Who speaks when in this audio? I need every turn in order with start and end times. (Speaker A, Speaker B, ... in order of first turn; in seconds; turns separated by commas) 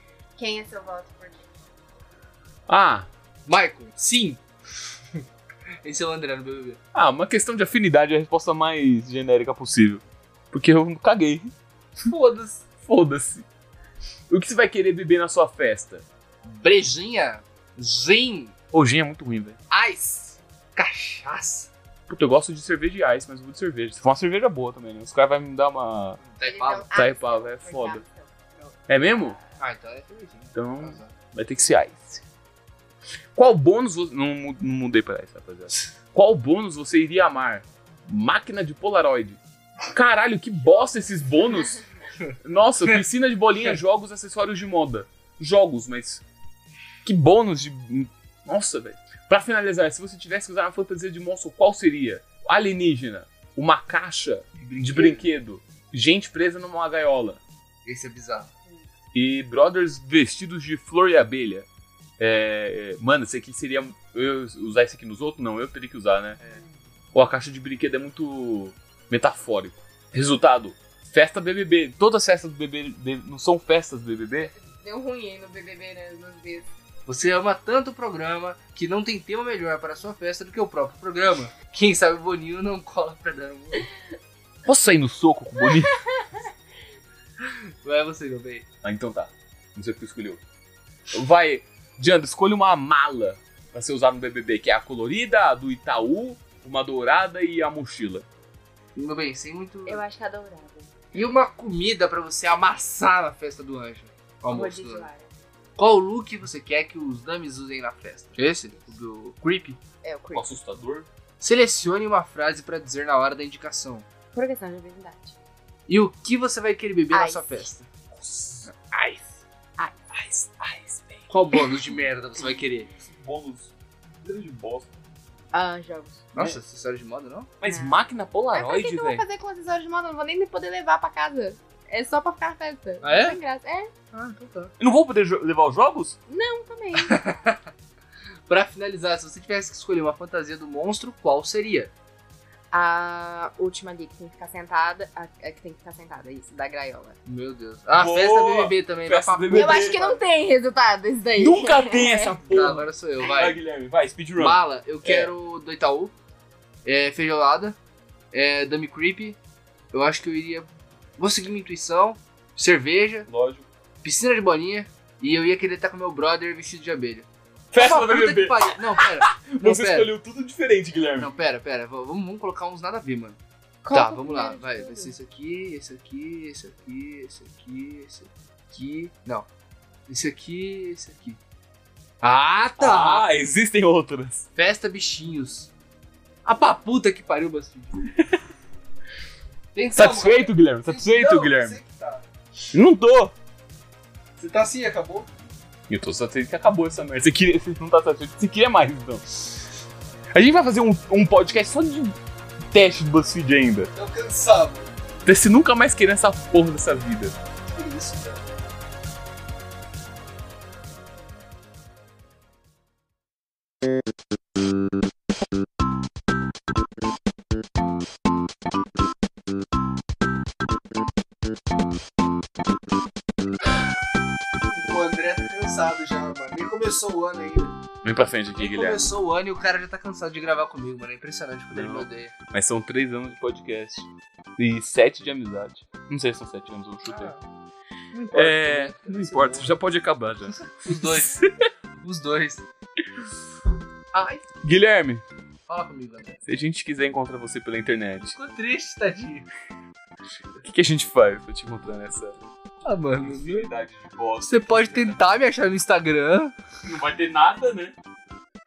Speaker A: 0.4-1.5, Speaker B: 2.7-3.1, Speaker C: 3.5-4.4, Speaker C: 5.8-6.8, Speaker B: 6.9-11.5, Speaker C: 12.0-12.6, Speaker B: 12.8-13.4, Speaker B: 14.3-16.0, Speaker C: 16.4-18.5, Speaker B: 18.7-19.6, Speaker C: 19.7-21.7, Speaker B: 22.1-26.2, Speaker C: 26.2-26.9, Speaker A: 26.4-29.4, Speaker B: 26.9-28.0, Speaker B: 28.9-29.4, Speaker C: 29.6-31.1, Speaker B: 30.5-32.2, Speaker B: 33.3-39.4, Speaker B: 39.9-41.8, Speaker B: 42.4-46.2, Speaker B: 47.0-57.4, Speaker C: 54.5-55.3, Speaker C: 57.8-58.5, Speaker B: 59.1-61.7, Speaker B: 62.2-66.4, Speaker B: 67.1-74.5, Speaker A: 74.5-76.7, Speaker C: 77.1-83.9, Speaker B: 84.6-85.9, Speaker A: 85.6-86.5, Speaker C: 87.4-88.7, Speaker B: 88.8-90.4, Speaker B: 91.1-98.2, Speaker C: 99.0-100.0, Speaker A: 99.8-100.9, Speaker C: 101.1-105.0, Speaker A: 104.5-105.3, Speaker C: 105.8-109.8, Speaker A: 110.0-110.5, Speaker B: 110.3-111.1, Speaker C: 111.4-114.0, Speaker A: 114.3-115.4, Speaker C: 115.9-117.9, Speaker A: 117.1-117.7, Speaker B: 118.1-119.2, Speaker A: 119.8-120.5, Speaker B: 120.2-121.2, Speaker C: 121.3-122.9, Speaker B: 123.0-125.0, Speaker A: 125.5-126.2, Speaker C: 126.3-127.5, Speaker B: 127.6-129.2, Speaker A: 127.6-128.0, Speaker A: 128.5-133.9, Speaker C: 133.0-133.4, Speaker C: 134.1-134.7, Speaker B: 134.8-136.2, Speaker A: 136.3-137.4, Speaker C: 137.0-137.6, Speaker C: 138.5-141.9, Speaker A: 142.7-147.2, Speaker C: 147.2-150.2, Speaker B: 147.9-150.0, Speaker A: 149.5-152.4, Speaker B: 151.4-155.3, Speaker C: 152.5-153.6, Speaker C: 154.4-156.1, Speaker C: 156.8-157.8, Speaker C: 158.3-159.4, Speaker C: 159.9-163.3, Speaker B: 163.3-163.7, Speaker C: 164.0-170.1, Speaker B: 167.7-171.3, Speaker C: 171.2-173.4, Speaker A: 173.8-175.1, Speaker C: 173.9-179.5, Speaker C: 180.1-181.4, Speaker C: 182.2-183.3, Speaker B: 182.8-184.5, Speaker C: 184.6-185.7, Speaker C: 186.4-188.1, Speaker C: 189.7-192.3, Speaker B: 189.9-191.8, Speaker B: 192.7-193.3, Speaker C: 194.4-195.3, Speaker B: 195.9-199.2, Speaker B: 200.3-202.2, Speaker B: 202.7-203.9, Speaker C: 203.9-204.9, Speaker B: 205.2-207.3, Speaker C: 207.7-208.4, Speaker C: 224.7-227.8, Speaker B: 228.0-229.1, Speaker C: 228.6-232.3, Speaker B: 231.7-237.3, Speaker C: 237.1-237.4, Speaker C: 238.1-239.8, Speaker B: 238.3-241.5, Speaker C: 240.8-241.4, Speaker C: 242.0-242.7, Speaker C: 244.1-244.4, Speaker B: 244.6-245.2, Speaker C: 245.7-246.4, Speaker B: 246.5-248.3, Speaker C: 248.3-249.5, Speaker B: 250.6-252.4, Speaker C: 252.8-253.7, Speaker B: 253.2-255.2, Speaker C: 254.4-256.5, Speaker B: 256.8-257.9